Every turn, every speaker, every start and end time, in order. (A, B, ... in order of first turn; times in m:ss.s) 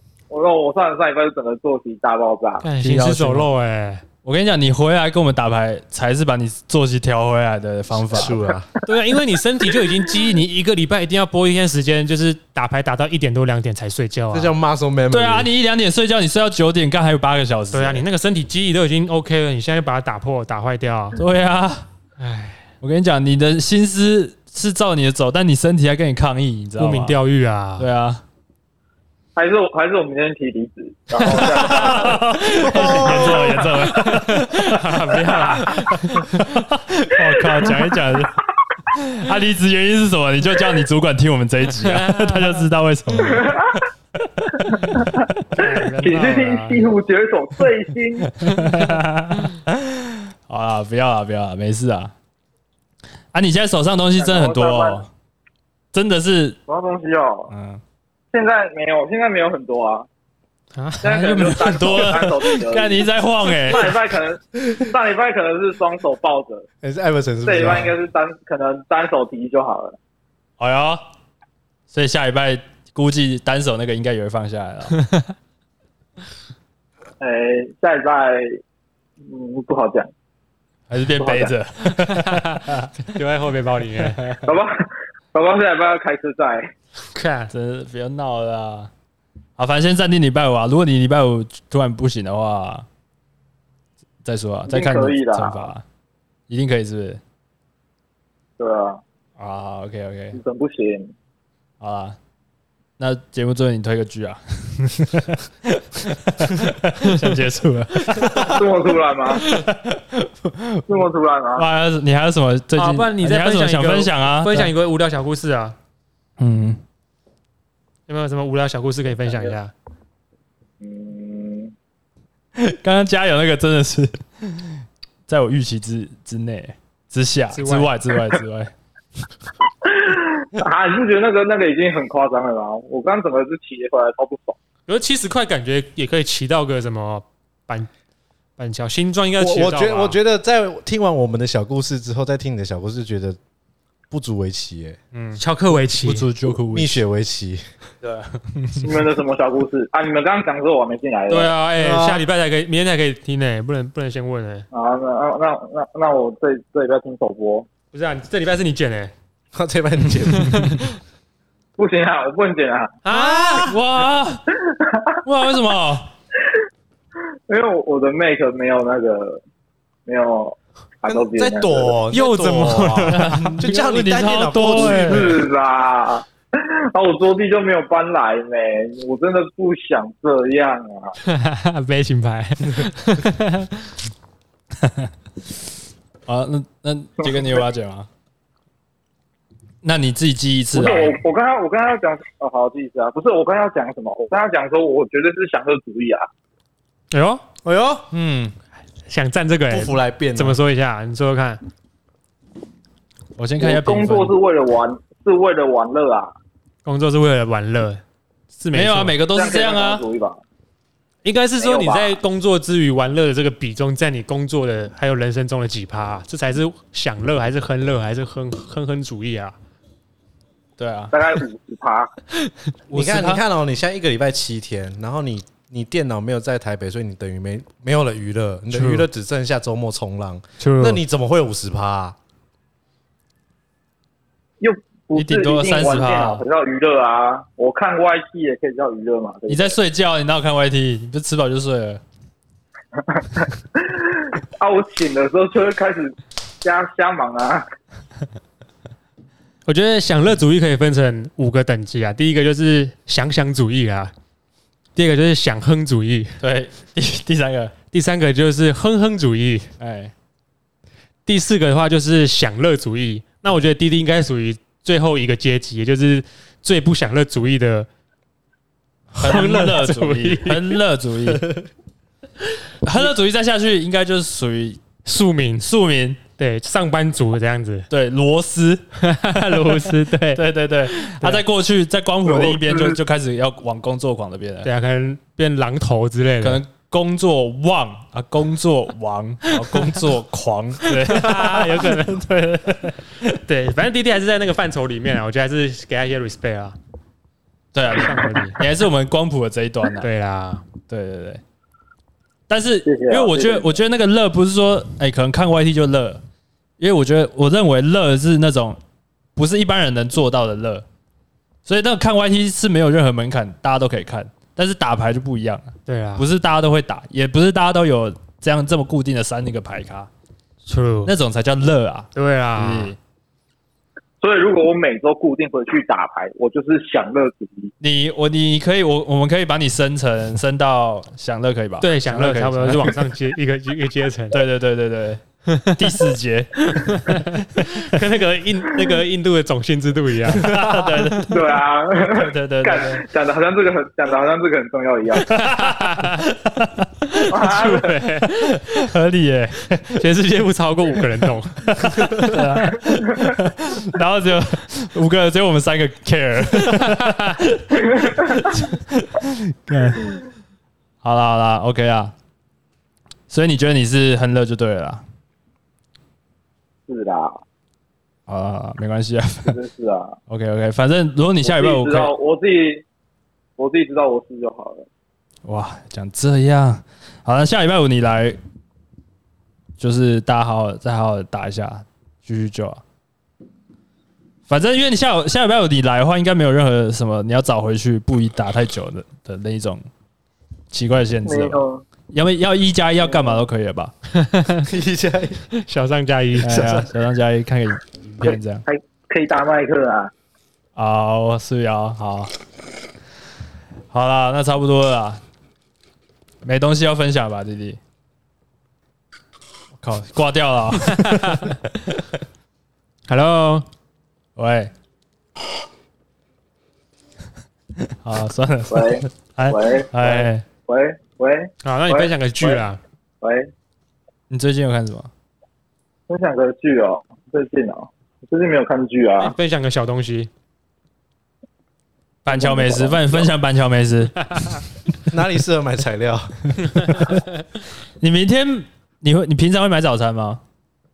0:00.3-0:02.6 A
0:02.6-0:04.0 B
0:02.8-0:03.5 C
0:04.2-0:08.4 C
0:08.1-0:08.7 D
0:08.9-0:14.5 B
0:14.3-0:15.5 D
0:15.1-0:18.0 C
0:17.7-0:21.2 B
0:21.2-0:21.9 C
0:22.2-0:22.6 B
0:22.8-0:27.2 C
0:26.8-0:27.9 B
0:27.8-0:28.2 C
0:29.4-0:33.6 A
0:31.2-0:31.7 B
0:31.3-0:35.0 C
0:32.6-0:33.5 D
0:32.7-0:36.5 B
0:35.6-0:38.4 C
0:38.9-0:43.6 C
0:41.8-0:42.6 B
0:43.2-0:43.8 A
0:44.4-0:45.0 C
0:44.9-0:48.3 A
0:45.6-0:46.8 B
0:48.4-0:52.1 C
0:48.5-0:48.9 B
0:53.3-0:55.1 C
0:54.2-0:55.0 A
0:55.9-0:56.6 C
0:56.7-0:57.5 A
0:57.5-0:57.8 C
0:58.3-1:00.1 A
1:00.8-1:01.1 B
1:01.0-1:06.7 A
1:01.0-1:04.0 C
1:06.8-1:08.0 D
1:07.4-1:10.0 A
1:10.6-1:11.0 C
1:11.9-1:15.0 C
1:15.0-1:15.3 B
1:17.2-1:18.6 A
1:19.2-1:20.1 A
1:20.9-1:23.0 C
1:21.2-1:21.5 A
1:22.0-1:24.2 B
1:24.0-1:24.4 C
1:24.4-1:24.8 A
1:25.3-1:26.7 A
1:27.1-1:27.5 B
1:27.5-1:28.9 C
1:29.6-1:32.9 C
1:34.2-1:35.8 C
1:34.7-1:35.7 A
1:36.5-1:37.2 C
1:38.6-1:39.0 A
1:39.4-1:40.4 C
1:40.3-1:41.1 A
1:41.8-1:42.2 C
1:43.0-1:48.7 C
1:48.4-1:49.5 A
1:49.3-1:51.0 C
1:50.9-1:51.6 A
1:51.6-1:54.7 C
1:52.8-1:55.8 B
1:56.4-1:56.8 C
1:58.1-1:59.7 B
1:59.3-1:59.5 A
2:00.8-2:01.7 A
2:02.6-2:08.7 C
2:07.5-2:07.9 B
2:09.8-2:14.6 A
2:14.9-2:17.9 B
2:18.6-2:20.2 B
2:19.4-2:23.4 D
2:24.1-2:25.0 D
2:25.1-2:26.3 B
2:26.0-2:27.0 C
2:26.7-2:27.6 D
2:28.0-2:29.0 C
2:28.8-2:31.6 A
2:31.3-2:34.6 B
2:31.8-2:32.2 D
2:34.7-2:37.7 A
2:37.9-2:39.1 B
2:39.5-2:40.6 D
2:40.3-2:40.9 B
2:41.8-2:43.0 A
2:43.0-2:43.7 B
2:43.1-2:43.8 D
2:43.6-2:44.4 C
2:44.6-2:45.1 A
2:45.2-2:46.1 C
2:47.5-2:49.4 A
2:50.1-2:52.0 A
2:51.1-2:55.4 D
2:52.1-2:53.6 B
2:53.1-2:55.4 C
2:54.7-3:01.1 A
3:01.2-3:03.9 B
3:04.8-3:05.1 C
3:06.3-3:08.1 C
3:07.2-3:07.6 A
3:09.8-3:11.2 C
3:10.7-3:16.3 A
3:17.1-3:17.4 B
3:17.6-3:18.1 D
3:18.1-3:18.5 C
3:19.1-3:21.6 B
3:19.7-3:20.6 D
3:23.4-3:24.4 C
3:23.6-3:26.3 A
3:26.8-3:28.0 B
3:28.6-3:29.2 B
3:28.7-3:30.0 C
3:29.3-3:30.4 A
3:31.2-3:39.6 B
3:31.6-3:32.2 A
3:40.8-3:41.1 C
3:41.1-3:42.1 A
3:42.9-3:43.4 C
3:42.9-3:52.2 D
3:48.7-3:49.0 B
3:50.6-3:51.0 B
3:54.6-3:59.8 A
3:55.1-3:56.4 C
3:59.5-4:02.0 C
4:03.1-4:07.6 A
4:09.7-4:14.1 B
4:15.0-4:16.4 B
4:16.4-4:17.7 C
4:17.9-4:19.7 B
4:19.8-4:20.1 C
4:21.3-4:27.9 B
4:29.2-4:31.5 C
4:29.2-4:30.8 B
4:32.8-4:34.8 C
4:35.0-4:35.7 B
4:35.6-4:36.2 C
4:36.4-4:37.9 B
4:37.9-4:38.8 C
4:39.0-4:41.4 B
4:39.7-4:44.7 C
4:42.2-4:43.0 A
4:44.6-4:46.6 B
4:46.4-4:53.4 C
4:50.8-4:52.2 B
4:53.4-4:56.8 B
4:57.7-5:00.1 C
4:57.9-4:58.6 B
5:00.0-5:00.6 B
5:00.9-5:01.4 C
5:02.5-5:06.2 C
5:02.8-5:03.8 A
5:06.8-5:08.8 C
5:09.4-5:10.8 C
5:11.6-5:20.1 C
5:15.9-5:16.2 B
5:20.7-5:21.1 B
5:21.1-5:23.0 C
5:22.1-5:22.9 B
5:24.2-5:27.7 A
5:27.8-5:33.0 C
5:31.8-5:34.4 B
5:34.3-5:35.2 C
5:35.5-5:36.1 B
5:35.8-5:37.0 C
5:36.7-5:41.2 B
5:40.3-5:43.0 C
5:41.3-5:45.3 A
5:45.3-5:47.7 C
5:45.3-5:46.2 B
5:47.3-5:48.0 A
5:47.4-5:48.9 B
5:48.2-5:50.0 C
5:50.0-5:52.5 B
5:51.6-6:00.1 C
5:56.7-5:57.3 B
6:01.0-6:02.1 C
6:03.3-6:05.0 C
6:06.9-6:07.4 A
6:08.3-6:09.6 C
6:09.4-6:10.2 A
6:10.3-6:12.1 C
6:11.4-6:12.8 A
6:13.6-6:14.9 A
6:15.4-6:18.4 C
6:19.8-6:22.8 C
6:24.5-6:29.9 C
6:30.7-6:33.9 C
6:31.2-6:31.8 A
6:33.0-6:33.4 A
6:34.1-6:34.7 B
6:34.7-6:35.4 D
6:35.5-6:36.8 B
6:36.4-6:38.6 C
6:36.4-6:36.9 D
6:38.2-6:40.1 A
6:40.8-6:42.3 C
6:43.9-6:45.2 C
6:46.4-6:47.8 C
6:49.8-6:51.6 C
6:51.2-6:51.5 B
6:53.1-6:53.7 B
6:54.4-6:54.7 C
6:57.9-7:00.4 C
6:58.7-7:02.6 A
7:01.6-7:02.8 B
7:03.2-7:03.5 A
7:04.3-7:05.1 C
7:06.1-7:09.3 A
7:09.2-7:10.3 B
7:12.2-7:14.4 C
7:12.3-7:13.3 A
7:15.1-7:16.4 D
7:18.0-7:20.4 C